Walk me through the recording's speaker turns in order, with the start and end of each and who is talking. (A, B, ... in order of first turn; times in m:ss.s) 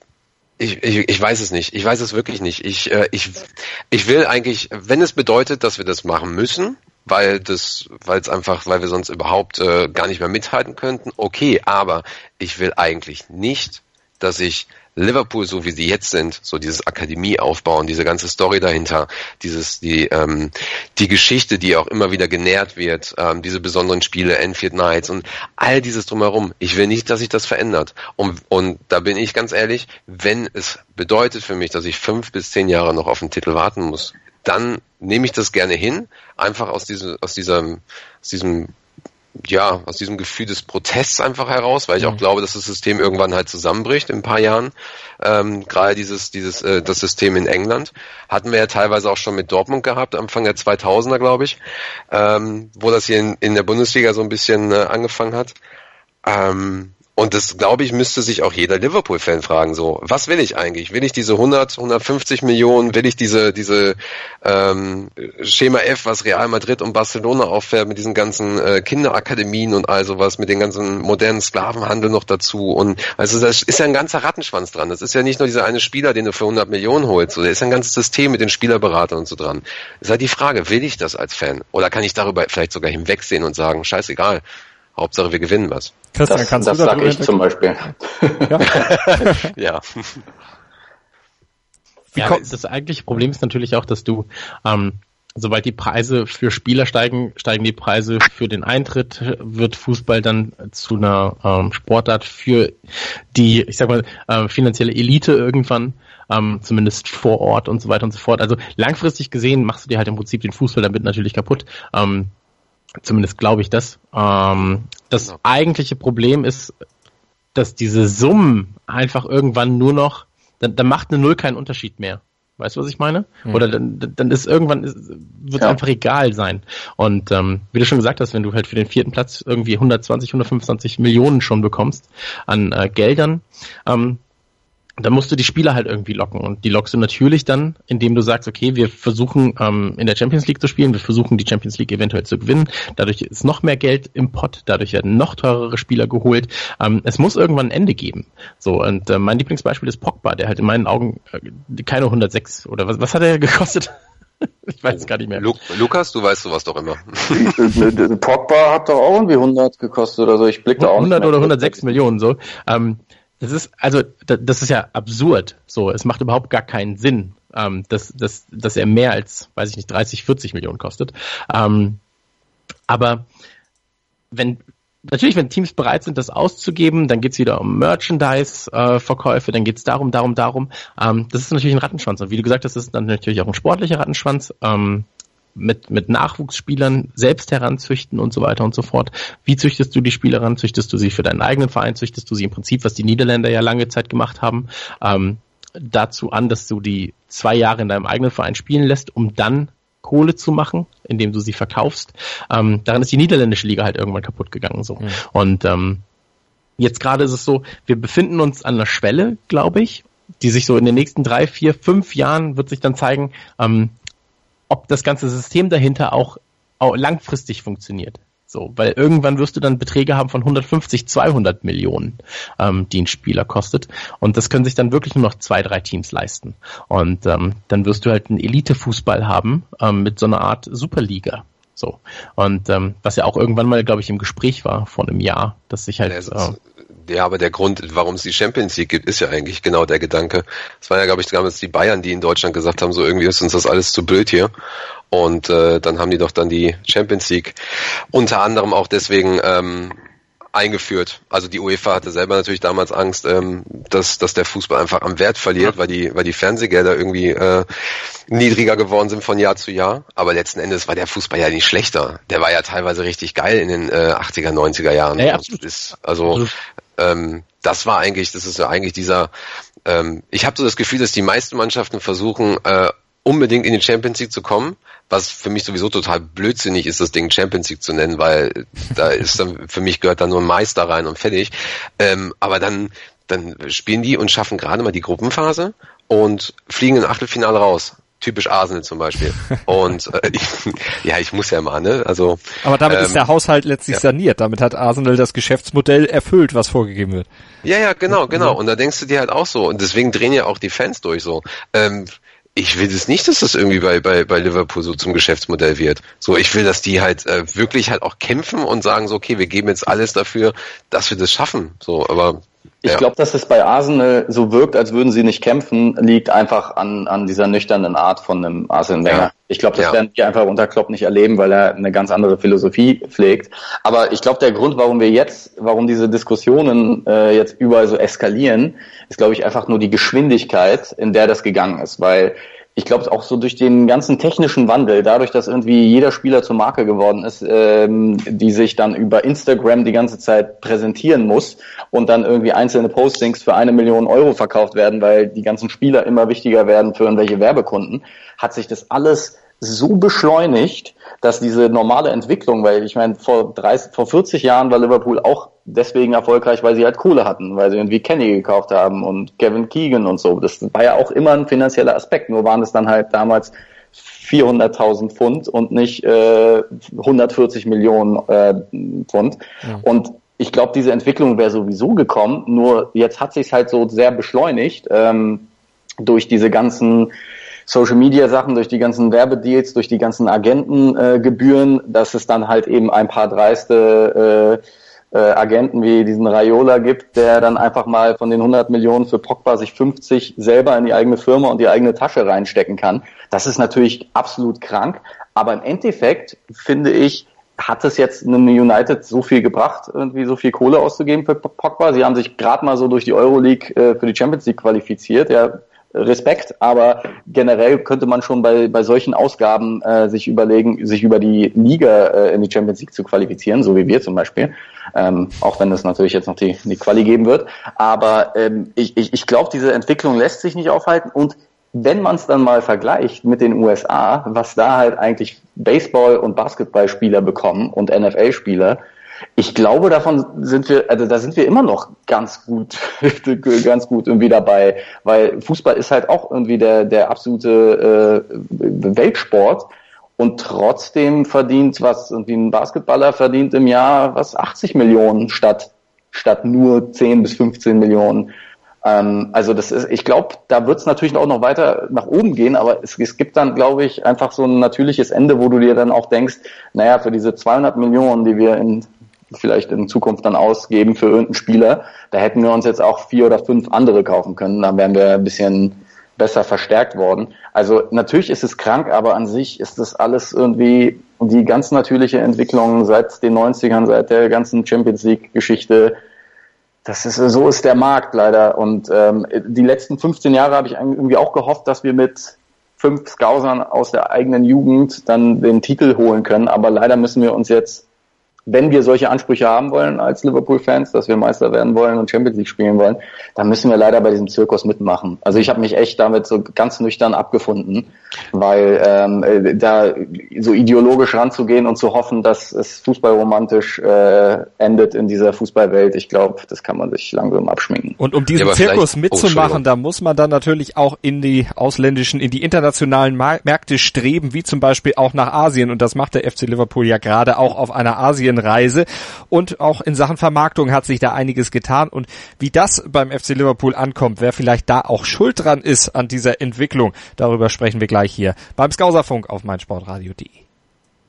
0:00.6-0:38.7 A
0:39.4-0:51.6 A
0:52.1-0:55.6 A
0:56.2-1:24.4 A
1:25.0-1:25.9 A
1:26.1-1:27.4 B
1:26.3-1:29.2 C
1:28.7-1:30.2 A
1:29.2-1:29.5 B
1:32.2-1:32.4 B
1:32.2-1:42.8 D
1:43.3-1:52.3 D
1:53.0-1:56.7 D
1:57.6-2:14.2 D
2:15.0-2:33.9 D
2:34.6-2:35.6 D
2:35.0-2:37.5 A
2:37.4-2:42.0 C
2:40.8-2:52.0 D
2:52.9-2:53.3 D
2:54.3-3:26.0 D
3:26.8-3:33.9 D
3:34.7-3:56.6 D
3:56.1-3:56.5 A
3:57.0-4:04.5 A
4:05.1-4:07.6 A
4:08.1-4:10.0 A
4:10.5-4:17.7 A
4:18.3-4:26.4 A
4:25.2-4:26.5 D
4:27.0-4:29.3 A
4:29.8-4:53.3 A
4:52.6-4:57.3 B
4:57.6-5:13.0 A
5:12.8-6:15.4 C
5:19.1-5:20.0 A
6:16.0-6:17.1 C
6:17.7-6:24.6 C
6:25.1-7:08.8 C
7:09.4-7:28.3 C
7:28.8-7:56.0 C
7:56.8-8:07.8 C
8:08.5-8:28.0 C
8:28.0-8:50.4 B
8:28.4-8:29.6 A